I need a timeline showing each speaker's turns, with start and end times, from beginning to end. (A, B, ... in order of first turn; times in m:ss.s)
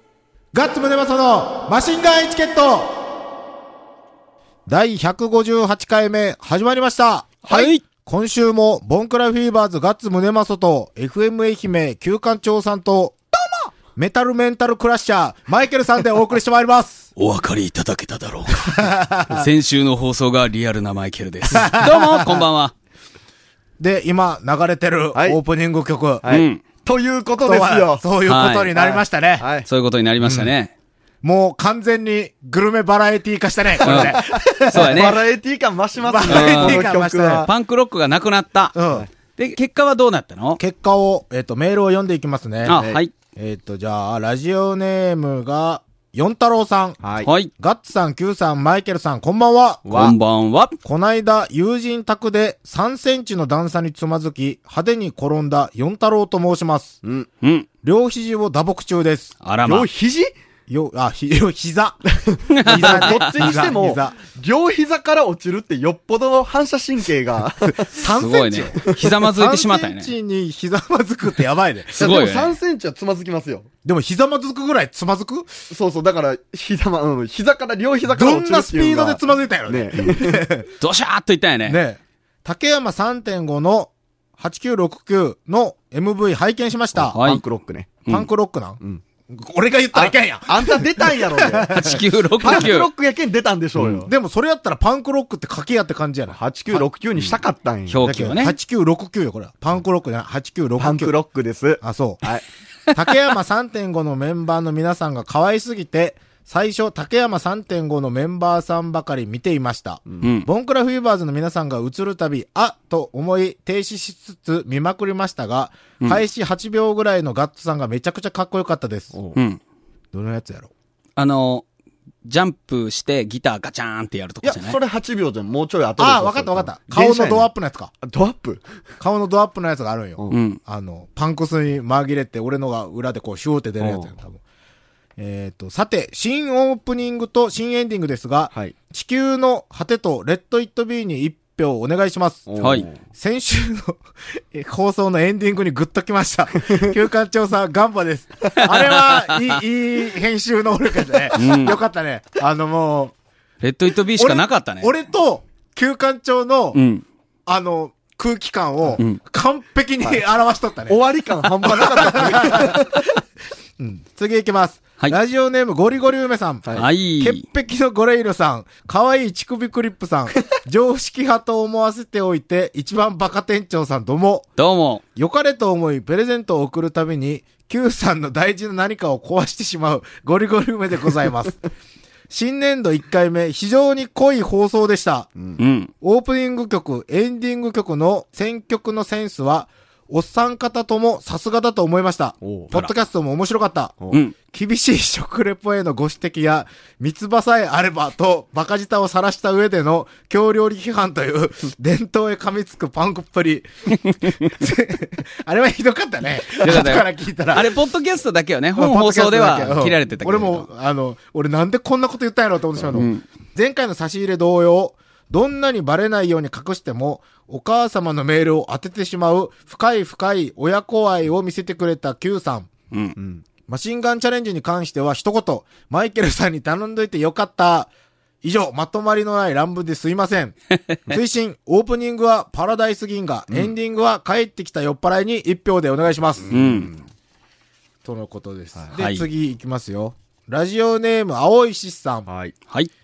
0:00.5-0:03.1 A
0:04.7-0:13.2 A
0:07.4-0:07.7 B
0:07.5-0:07.8 C
0:14.0-0:17.1 A
0:17.2-0:22.7 C
0:18.5-0:19.5 A
0:21.5-0:22.4 A
0:23.8-0:26.2 A
0:25.1-0:25.4 B
0:26.2-0:28.0 B
0:26.3-0:26.6 C
0:27.4-0:29.5 A
0:28.3-0:28.7 C
0:28.7-0:29.7 B
0:29.7-0:30.7 C
0:30.2-0:30.5 A
0:31.2-0:35.1 A
0:33.8-0:37.5 B
0:33.8-0:35.2 C
0:36.0-0:37.5 A
0:36.3-0:36.9 C
0:37.4-0:38.7 C
0:38.7-0:39.1 A
0:39.4-0:40.6 C
0:40.6-0:42.8 A
0:42.6-0:43.1 C
0:43.4-0:47.0 A
0:47.0-0:47.3 B
0:47.2-0:47.5 C
0:47.6-0:49.9 A
0:49.9-0:50.2 B
0:49.9-0:50.8 C
0:50.8-0:57.0 A
0:57.0-0:57.3 B
0:57.8-0:59.3 A
0:59.4-0:59.9 C
0:59.6-1:00.3 B
1:00.7-1:02.1 A
1:02.1-1:07.9 B
1:02.5-1:03.6 C
1:02.6-1:04.2 A
1:07.7-1:12.2 A
1:08.2-1:10.1 C
1:12.0-1:13.7 B
1:12.0-1:12.6 C
1:13.8-1:15.6 A
1:15.7-1:20.5 B
1:18.1-1:20.7 A
1:20.8-1:21.8 C
1:21.7-1:27.2 A
1:27.0-1:28.0 B
1:27.1-1:27.4 C
1:28.1-1:32.0 A
1:29.9-1:31.8 B
1:31.7-1:32.9 C
1:32.4-1:34.1 B
1:34.0-1:37.4 A
1:36.3-1:38.1 B
1:37.9-1:38.6 C
1:38.0-1:41.1 A
1:40.8-1:42.4 B
1:41.8-1:42.2 A
1:42.9-1:59.1 A
1:50.2-1:50.5 C
2:00.1-2:00.7 A
2:01.2-2:01.6 C
2:02.2-2:04.8 C
2:04.4-2:07.5 B
2:06.0-2:07.9 A
2:08.0-2:08.6 B
2:09.0-2:14.4 A
2:10.3-2:10.6 C
2:13.8-2:14.1 B
2:15.2-2:22.5 A
2:22.5-2:22.9 B
2:22.6-2:22.9 C
2:23.0-2:33.1 A
2:28.6-2:29.6 C
2:31.3-2:31.8 C
2:33.6-2:34.9 C
2:34.2-2:36.8 A
2:36.7-2:37.0 C
2:37.5-2:41.0 A
2:40.9-2:43.2 B
2:41.6-2:42.9 A
2:43.8-2:54.5 A
2:46.8-2:47.4 C
2:54.6-2:55.0 C
2:55.2-3:01.6 A
3:02.3-3:05.3 A
3:05.6-3:05.9 C
3:06.0-3:14.0 A
3:12.4-3:12.7 B
3:14.5-3:27.7 A
3:26.6-3:30.6 C
3:28.8-3:42.7 A
3:33.0-3:33.2 C
3:43.2-3:43.4 B
3:43.7-3:47.9 A
3:48.4-3:50.6 A
3:51.1-3:56.5 A
3:56.5-3:57.0 B
3:56.5-3:56.9 C
3:58.0-4:02.3 A
3:58.9-3:59.2 C
4:02.3-4:02.5 B